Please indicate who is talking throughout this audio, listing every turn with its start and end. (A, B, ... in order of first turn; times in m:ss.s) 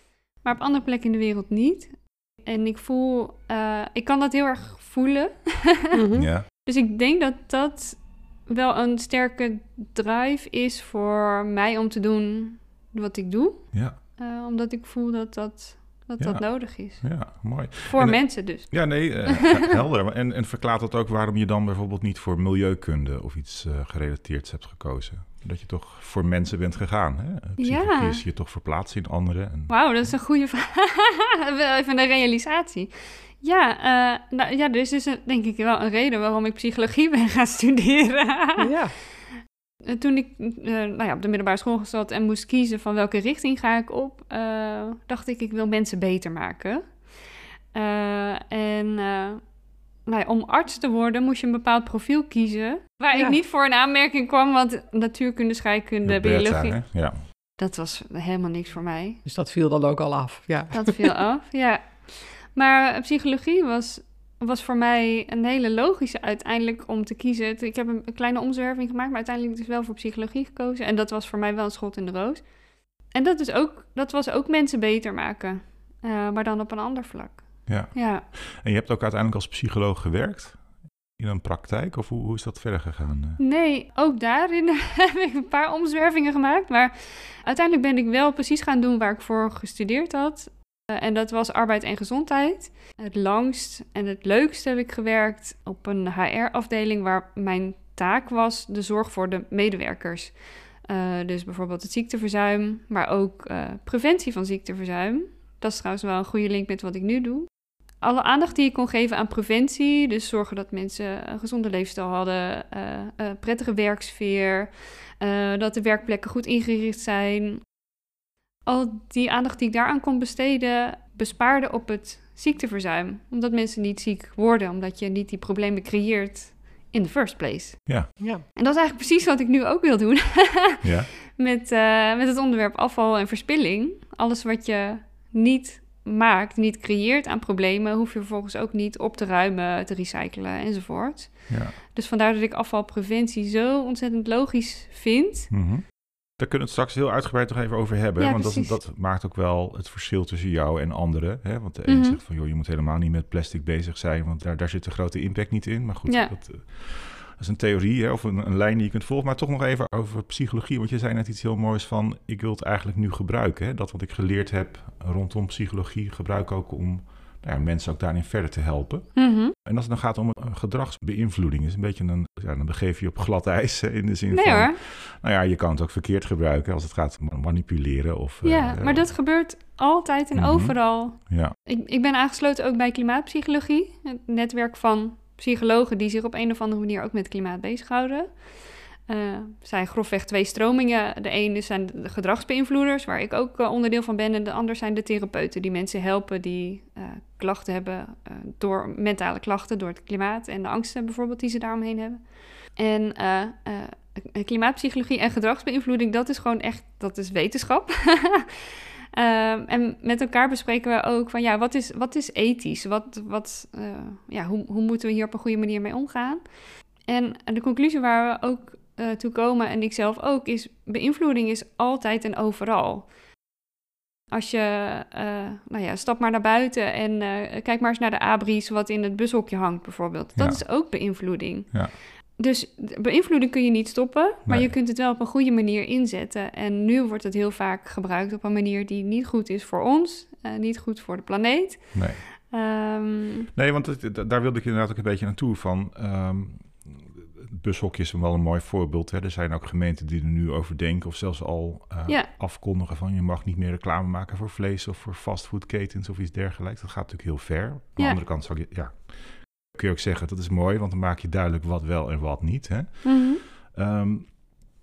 0:00.4-0:06.0 A
0:06.0-0:06.3 B
0:06.2-0:06.5 C
0:06.5-0:19.4 A
0:13.7-0:14.0 C
0:16.2-0:30.2 C
0:27.6-0:28.2 A
0:29.7-0:38.7 A
0:38.6-0:39.0 B
0:39.8-0:47.0 A
0:47.7-0:49.5 A
0:50.0-0:59.2 A
0:56.0-0:57.2 C
0:59.3-1:01.2 B
1:00.7-1:12.5 A
1:13.1-1:18.3 A
1:17.7-1:23.4 C
1:23.4-1:57.7 A
1:58.7-2:25.5 A
2:08.2-2:08.4 B
2:10.8-2:11.1 C
2:21.5-2:21.8 C
2:25.5-2:59.1 C
2:28.2-2:28.8 A
2:31.9-2:32.2 A
2:36.1-2:36.4 A
2:49.2-2:49.5 A
2:54.3-2:54.8 A
2:58.4-3:36.5 A
3:00.4-3:01.6 C
3:37.0-3:43.1 A
3:44.3-4:03.5 A
3:50.4-3:50.8 C
3:54.4-3:54.7 C
4:01.9-4:02.2 C
4:03.5-4:24.4 C
4:23.0-4:23.4 A